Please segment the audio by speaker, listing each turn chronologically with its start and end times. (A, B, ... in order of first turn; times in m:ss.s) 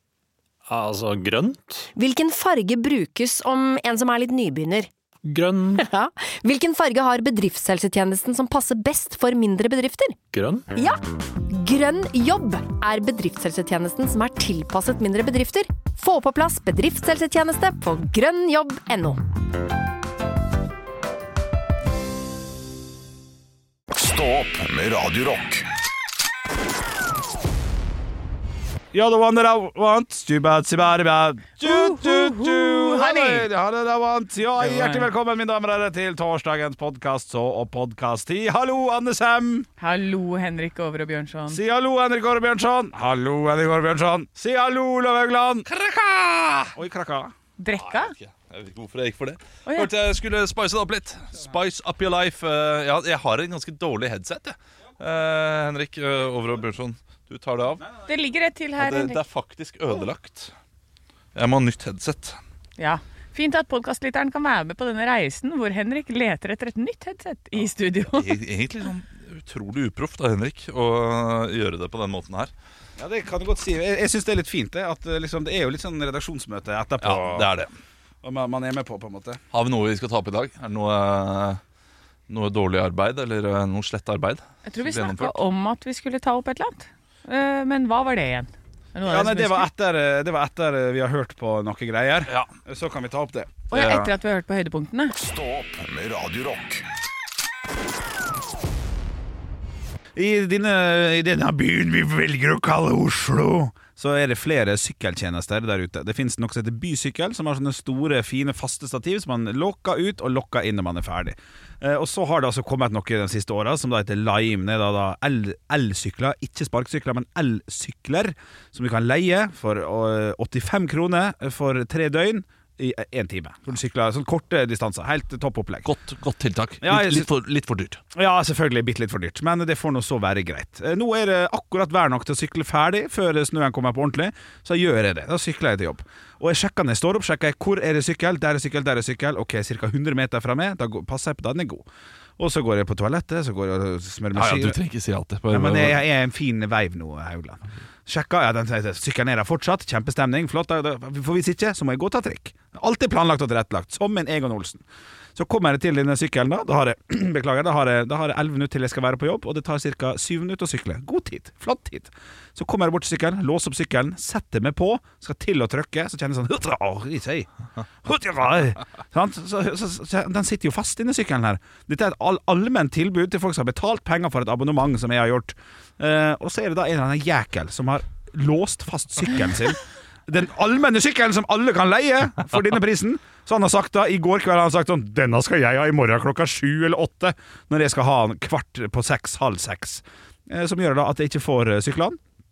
0:00.6-0:01.9 A
0:01.9-0:04.9 B
0:05.2-0:05.8 A
0:05.8-0:10.2 B
0:10.3-0:10.7 A
0:10.7-0:19.2 B
0:23.9-0:25.6 C
0:28.9-0:39.7 D
0:31.6-0:33.5 E
0:34.6-0:35.1 E
0:39.8-0:41.6 E
0:41.5-0:45.7 D
0:45.7-0:46.8 F
0:46.7-0:47.3 D
0:47.6-0:48.1 E
0:47.8-0:57.8 F
0:58.0-0:59.2 E
0:58.8-1:00.5 F
1:01.3-1:02.4 F
1:02.8-1:08.3 E
1:08.0-1:12.5 F
1:13.0-1:17.5 D
1:17.0-1:17.7 F
1:18.2-1:19.4 D
1:19.5-1:21.6 F
1:22.3-1:25.3 F
1:24.6-1:29.7 E
1:29.0-1:33.7 D
1:33.7-1:35.1 E
1:33.7-1:34.1 F
1:35.2-1:36.8 C
1:40.2-2:05.9 D
2:05.8-2:08.0 F
2:06.8-2:07.3 D
2:08.1-2:21.8 D
2:22.4-2:24.8 D
2:24.3-2:26.0 F
2:25.5-2:34.8 D
2:35.4-2:47.5 D
2:48.0-3:12.2 D